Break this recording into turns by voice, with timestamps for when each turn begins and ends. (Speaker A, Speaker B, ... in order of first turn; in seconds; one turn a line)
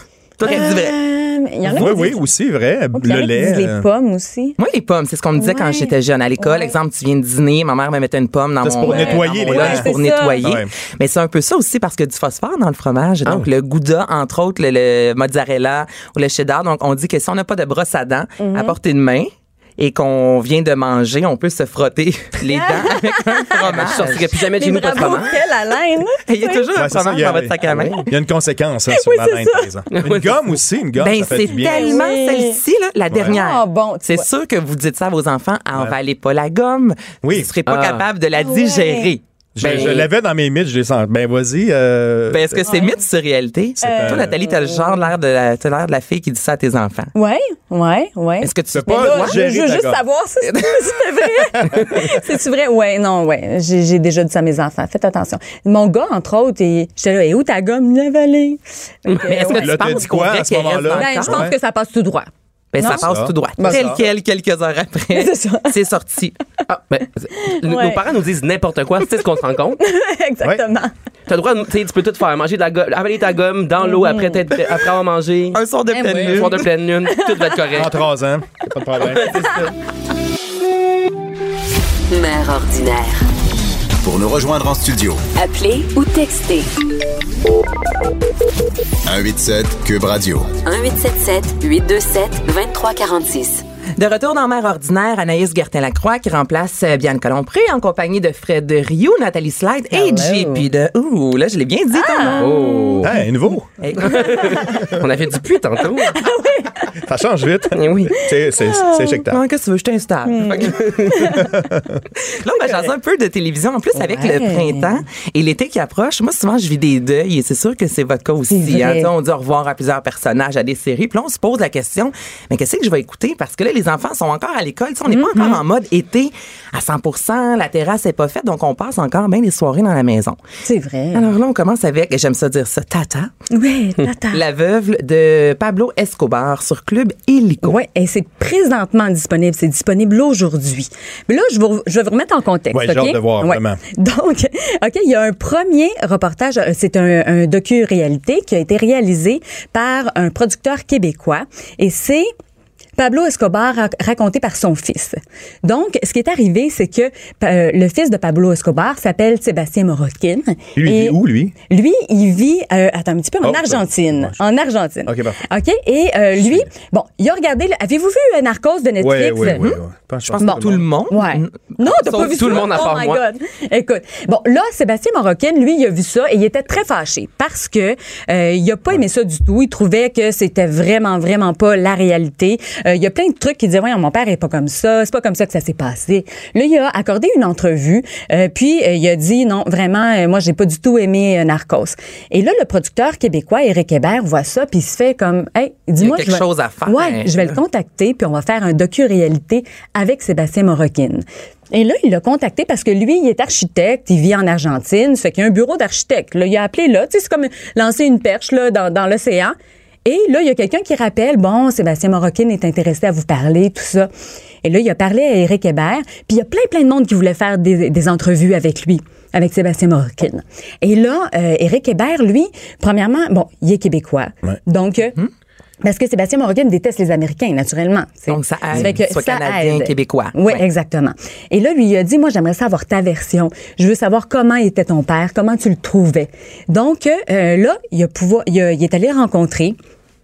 Speaker A: 0.4-0.7
Speaker B: 0.4-0.9
Speaker C: 0.5-2.2
Speaker D: 1.7-3.9
Speaker C: 2.9-4.6
Speaker B: 4.6-24.4
Speaker C: 5.4-6.7
Speaker D: 8.6-9.9
Speaker C: 8.8-10.5
Speaker D: 10.4-10.7
Speaker C: 18.4-18.8
Speaker C: 22.5-23.6
Speaker A: 23.7-25.4
Speaker C: 24.6-26.6
Speaker B: 26.3-28.1
Speaker D: 26.8-32.0
Speaker C: 28.9-29.7
Speaker A: 29.9-30.4
Speaker B: 31.0-40.0
Speaker C: 31.6-32.6
Speaker D: 33.1-33.4
Speaker C: 33.3-34.2
Speaker D: 37.2-37.5
Speaker A: 37.7-38.1
Speaker C: 38.4-39.1
Speaker D: 39.6-42.7
Speaker A: 39.6-40.1
Speaker B: 42.3-47.1
Speaker C: 42.7-43.0
Speaker D: 43.8-44.3
Speaker C: 43.8-45.0
Speaker C: 47.1-60.0
Speaker B: 48.4-49.4
Speaker D: 48.7-50.0
Speaker B: 50.4-51.2
Speaker B: 59.2-61.5
Speaker D: 59.6-61.5
Speaker C: 60.9-63.0
Speaker B: 62.7-66.3
Speaker D: 62.8-64.0
Speaker C: 63.6-64.0
Speaker C: 65.1-65.8
Speaker A: 66.7-69.8
Speaker C: 67.4-68.0
Speaker C: 69.8-70.9
Speaker A: 71.3-75.6
Speaker C: 73.8-74.5
Speaker B: 75.5-76.7
Speaker C: 75.9-77.7
Speaker A: 76.1-77.9
Speaker D: 77.7-79.7
Speaker E: 82.1-83.4
Speaker F: 84.0-85.2
Speaker E: 85.3-86.7
Speaker F: 89.0-90.5
Speaker E: 90.6-93.6
Speaker B: 94.0-102.6
Speaker C: 99.9-100.7
Speaker C: 101.9-103.1
Speaker A: 102.2-103.2
Speaker D: 103.0-103.7
Speaker B: 103.8-104.8
Speaker A: 104.0-106.2
Speaker C: 104.1-104.9
Speaker C: 106.0-106.9
Speaker D: 107.0-109.4
Speaker A: 107.7-108.2
Speaker C: 108.5-109.2
Speaker B: 109.3-111.0
Speaker C: 110.2-111.5
Speaker A: 110.7-111.3
Speaker D: 111.4-112.0
Speaker B: 112.2-130.4
Speaker C: 113.9-115.0
Speaker C: 118.5-119.1
Speaker C: 125.1-125.6
Speaker C: 130.7-131.3
Speaker B: 131.1-133.3
Speaker C: 133.5-134.4
Speaker B: 134.3-137.8
Speaker C: 137.6-152.3
Speaker D: 142.7-143.8
Speaker C: 153.0-169.6
Speaker D: 160.8-161.5
Speaker D: 163.4-164.4
Speaker D: 165.1-165.4
Speaker D: 166.4-166.7
Speaker D: 169.0-170.9
Speaker B: 169.4-172.8
Speaker C: 170.4-214.1
Speaker A: 172.1-173.2
Speaker B: 196.0-197.5
Speaker C: 214.6-225.2
Speaker C: 225.8-239.8
Speaker B: 228.3-230.7